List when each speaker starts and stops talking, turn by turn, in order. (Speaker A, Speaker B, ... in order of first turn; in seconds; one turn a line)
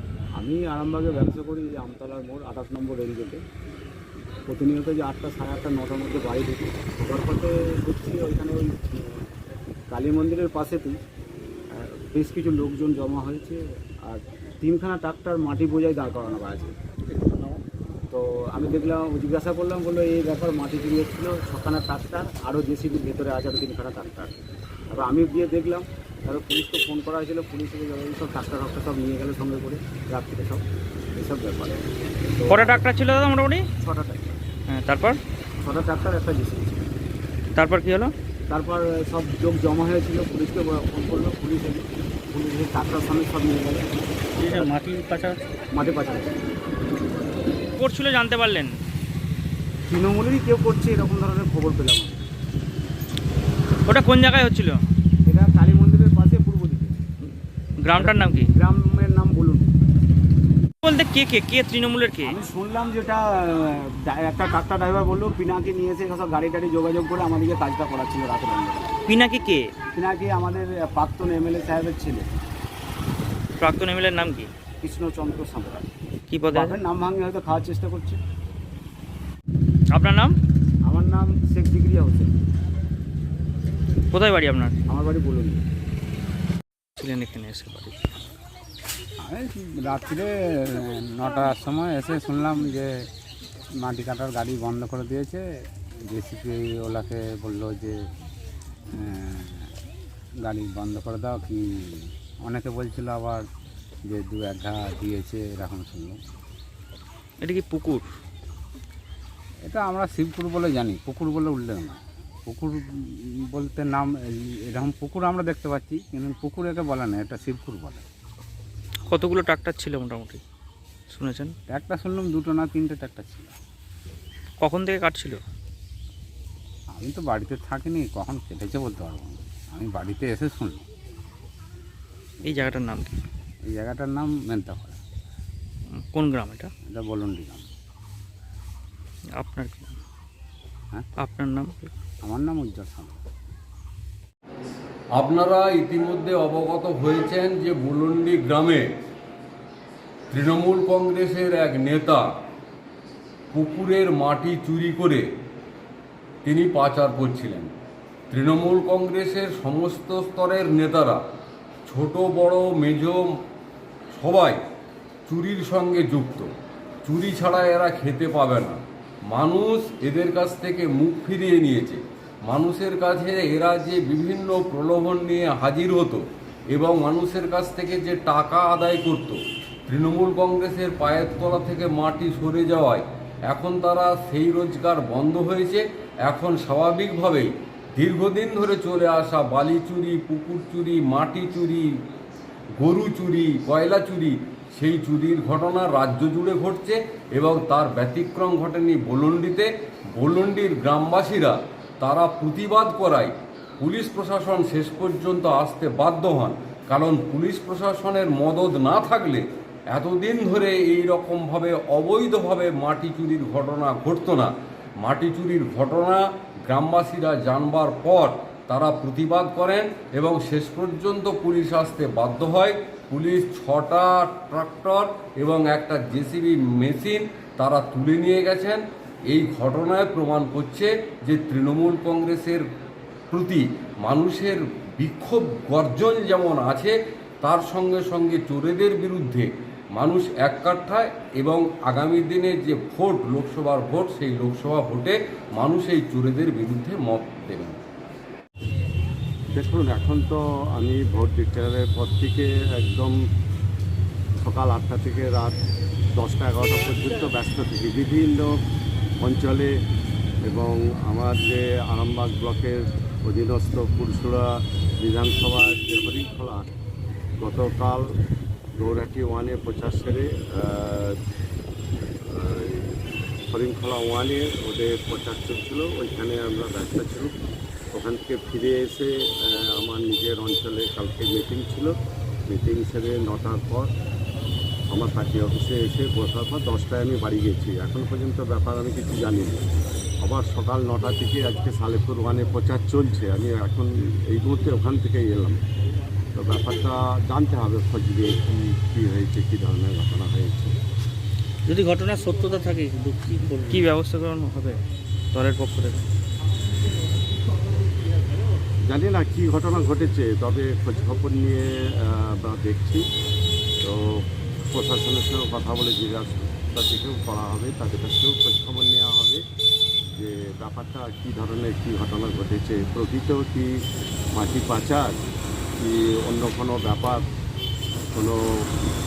Speaker A: 0.4-3.4
Speaker A: 4.5-9.2
Speaker A: 9.9-11.0
Speaker A: 11.7-16.8
Speaker A: 18.1-24.4
Speaker A: 24.9-31.8
Speaker A: 32.4-32.9
Speaker B: 32.5-33.7
Speaker A: 33.8-34.3
Speaker B: 34.7-35.2
Speaker A: 35.6-36.9
Speaker B: 37.5-38.1
Speaker A: 38.5-44.7
Speaker C: 44.9-45.2
Speaker A: 45.7-46.3
Speaker B: 47.8-48.8
Speaker A: 49.9-52.3
Speaker B: 53.9-54.9
Speaker A: 55.2-57.0
Speaker B: 57.8-58.5
Speaker A: 57.9-59.7
Speaker B: 60.8-62.4
Speaker A: 62.2-69.0
Speaker B: 69.1-69.7
Speaker A: 69.9-72.3
Speaker B: 73.6-74.5
Speaker A: 74.8-75.9
Speaker B: 76.3-76.8
Speaker A: 76.5-78.2
Speaker B: 79.9-80.4
Speaker A: 80.8-82.4
Speaker B: 84.1-84.8
Speaker A: 84.9-85.6
Speaker B: 87.0-88.0
Speaker D: 89.2-92.9
Speaker D: 93.8-95.4
Speaker D: 96.1-98.1
Speaker D: 98.9-99.7
Speaker D: 100.4-103.5
Speaker D: 104.1-106.2
Speaker B: 107.4-108.1
Speaker D: 109.7-118.0
Speaker B: 119.1-120.4
Speaker B: 121.1-121.5
Speaker D: 121.7-123.5
Speaker B: 124.6-125.4
Speaker D: 126.9-130.9
Speaker B: 132.4-133.2
Speaker D: 133.7-135.0
Speaker B: 135.9-136.7
Speaker D: 136.9-137.7
Speaker B: 139.4-140.0
Speaker B: 141.2-141.9
Speaker D: 142.2-143.2
Speaker E: 145.2-148.9
Speaker E: 150.3-152.3
Speaker E: 153.5-155.2
Speaker E: 156.4-157.7
Speaker E: 158.3-161.2
Speaker E: 161.9-163.2
Speaker E: 164.1-164.6
Speaker E: 165.3-166.5
Speaker E: 167.0-168.8
Speaker E: 169.3-191.8
Speaker E: 192.8-232.6
Speaker E: 233.3-247.8
Speaker F: 249.5-253.2
Speaker F: 254.4-255.6
Speaker F: 256.2-258.5
Speaker F: 259.2-259.7
Speaker F: 260.5-264.5
Speaker F: 265.0-266.7
Speaker F: 267.4-268.1
Speaker F: 268.8-271.2
Speaker F: 272.3-273.0
Speaker F: 273.5-277.3
Speaker F: 277.9-281.9
Speaker F: 282.5-283.9
Speaker F: 284.9-295.6
Speaker F: 296.3-300.8
Speaker C: 301.7-303.8
Speaker B: 303.7-306.1
Speaker F: 308.9-313.1
Speaker F: 313.8-319.4
Speaker F: 320.1-323.8
Speaker F: 324.3-325.2
Speaker F: 325.8-327.2
Speaker F: 328.1-328.7